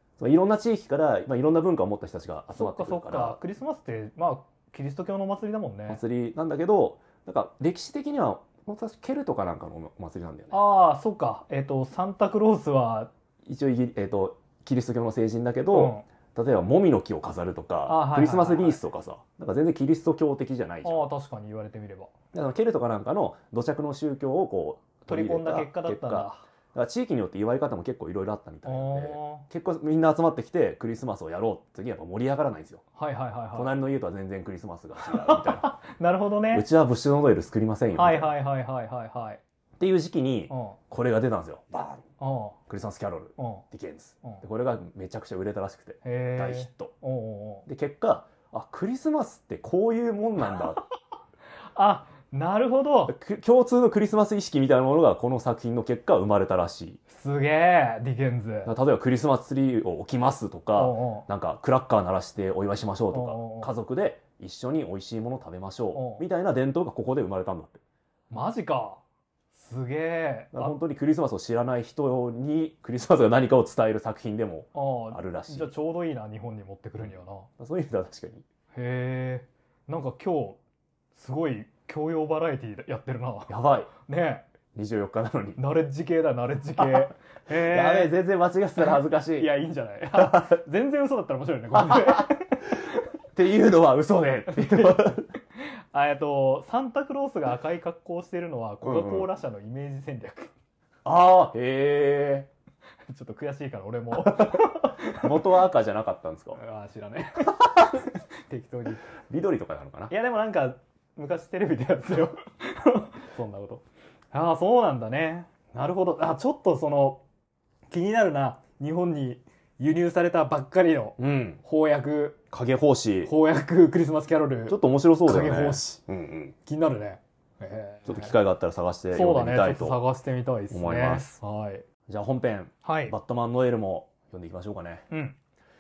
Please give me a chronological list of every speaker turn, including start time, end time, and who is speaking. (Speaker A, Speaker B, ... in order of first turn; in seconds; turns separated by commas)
Speaker A: 0.2-3.4, Speaker B: 2.5-6.0, Speaker A: 5.9-10.6, Speaker B: 10.5-13.1, Speaker A: 13.5-21.1, Speaker B: 15.7-16.1, Speaker B: 17.9-18.8, Speaker B: 20.8-22.1, Speaker A: 22.3-32.8, Speaker B: 25.1-26.4, Speaker B: 28.7-29.5, Speaker B: 33.0-33.8, Speaker A: 33.5-35.8, Speaker B: 35.1-36.7, Speaker A: 36.5-38.3, Speaker B: 38.0-39.4, Speaker A: 39.8-42.0, Speaker B: 40.5-40.8, Speaker B: 42.2-42.6, Speaker A: 42.7-46.9, Speaker B: 43.4-43.6, Speaker B: 46.0-47.7, Speaker A: 47.7-50.8, Speaker B: 51.8-53.1, Speaker A: 53.1-57.0, Speaker B: 57.1-58.7, Speaker A: 58.7-67.8, Speaker B: 60.8-61.3, Speaker B: 63.1-63.7, Speaker B: 65.9-66.2, Speaker B: 68.3-69.0, Speaker B: 69.5-70.8, Speaker A: 70.5-75.7, Speaker B: 74.8-77.5, Speaker A: 77.0-78.5, Speaker B: 78.7-80.6, Speaker B: 81.2-84.5, Speaker A: 83.5-83.9, Speaker A: 84.8-85.6, Speaker B: 85.6-88.1, Speaker A: 86.8-89.5, Speaker B: 88.8-93.1, Speaker A: 90.2-90.6, Speaker A: 91.7-92.3, Speaker A: 93.3-95.3, Speaker B: 94.5-100.5, Speaker A: 98.8-99.3, Speaker A: 101.0-102.5, Speaker B: 103.1-105.4, Speaker A: 104.2-106.6, Speaker B: 106.6-109.1, Speaker A: 107.5-108.0, Speaker A: 109.3-110.1, Speaker B: 110.1-117.2, Speaker B: 117.9-122.4, Speaker A: 121.2-121.6, Speaker A: 122.5-123.3, Speaker B: 123.2-126.0, Speaker A: 124.7-126.5, Speaker B: 126.7-128.3, Speaker A: 128.1-130.0, Speaker B: 129.1-131.8, Speaker A: 130.7-131.3, Speaker A: 132.1-135.1, Speaker B: 132.8-133.2, Speaker B: 135.1-135.4